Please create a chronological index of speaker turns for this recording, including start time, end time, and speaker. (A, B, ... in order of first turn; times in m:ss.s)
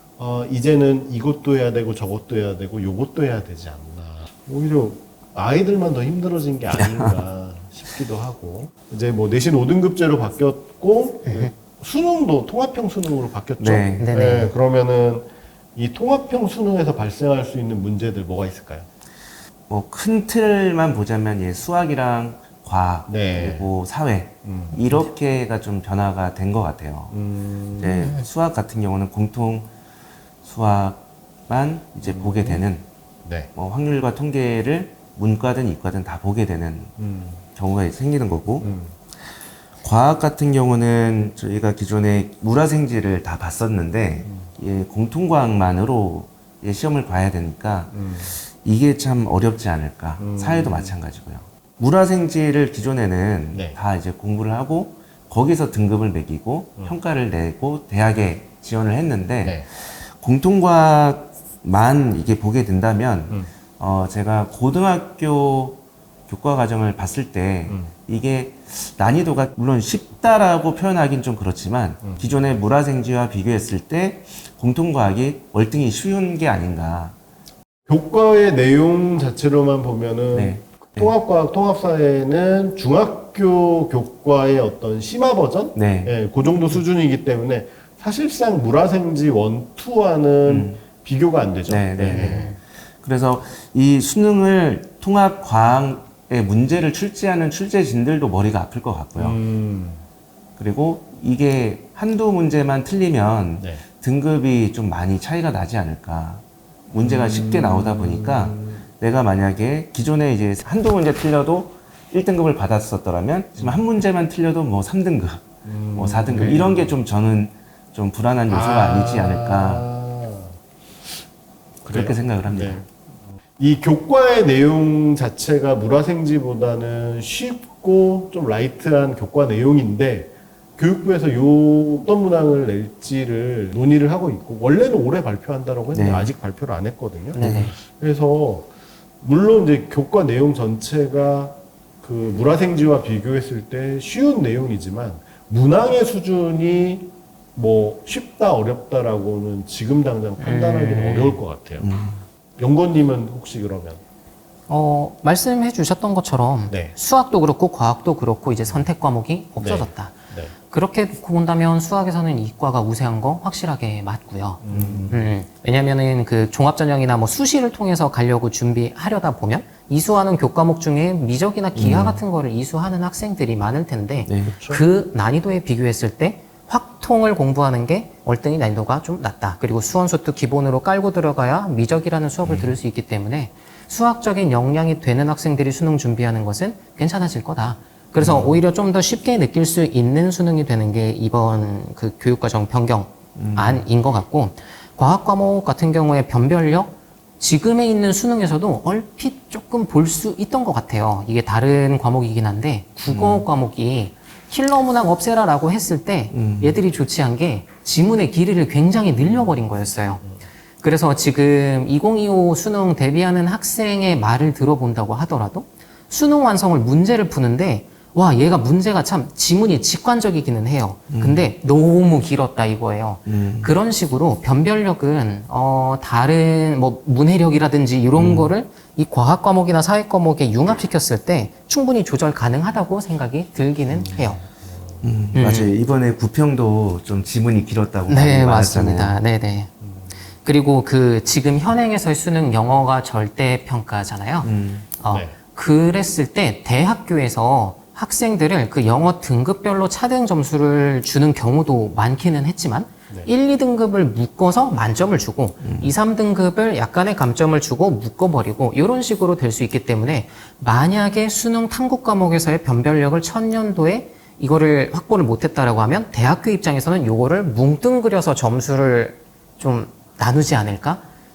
0:00.2-0:18.9 A
0:06.7-0:07.2 B
0:11.3-0:11.5 C
0:13.6-0:14.1 B
0:14.0-0:14.5 C
0:19.7-0:27.1 B
0:23.1-0:23.7 A
0:24.4-0:24.8 A
0:27.1-0:28.1 A
0:27.8-0:29.7 B
0:28.0-0:28.3 C
0:30.4-0:32.8 B
0:32.0-0:32.6 A
0:33.2-0:33.5 A
0:33.6-0:36.9 B
0:37.0-0:37.4 A
0:37.6-0:38.7 B
0:38.6-0:38.9 A
0:39.8-0:59.6 B
0:44.2-0:44.5 A
0:47.9-0:48.4 A
0:50.2-0:50.9 A
0:53.5-0:53.8 A
1:00.2-1:17.1 B
1:07.7-1:07.9 A
1:12.0-1:12.4 A
1:17.9-1:32.5 A
1:20.3-1:21.1 B
1:25.8-1:26.1 B
1:30.4-1:30.8 B
1:31.7-1:39.4 B
1:32.1-1:32.6 C
1:39.2-1:40.0 A
1:40.6-1:59.9 B
1:47.0-1:48.8 A
1:53.6-1:53.8 A
1:55.6-1:56.9 A
1:58.5-2:00.6 A
2:01.8-2:02.9 A
2:01.9-2:02.8 B
2:03.6-2:18.7 A
2:15.9-2:16.3 B
2:17.3-2:17.8 C
2:17.4-2:17.7 B
2:19.2-2:31.9 A
2:30.4-2:31.4 C
2:31.8-2:32.2 B
2:32.6-2:34.0 A
2:34.7-3:30.2 C
2:36.7-2:36.9 A
2:39.6-2:40.5 A
2:44.6-2:45.2 A
2:44.7-2:45.1 B
2:51.8-2:52.2 B
2:54.3-2:54.6 B
2:54.5-2:54.8 A
3:02.4-3:02.8 B
3:08.2-3:08.6 B
3:13.4-3:13.8 B
3:23.1-3:23.4 B
3:26.3-3:26.8 B
3:30.8-3:54.4 C
3:41.1-3:41.5 B
3:43.3-3:43.7 B
3:48.2-3:48.5 B
3:53.9-3:55.1 A
3:55.0-3:59.1 B
3:55.3-3:55.7 C
3:58.1-3:59.7 C
4:00.4-4:31.0 C
4:04.4-4:04.9 B
4:05.1-4:05.4 A
4:15.6-4:15.9 B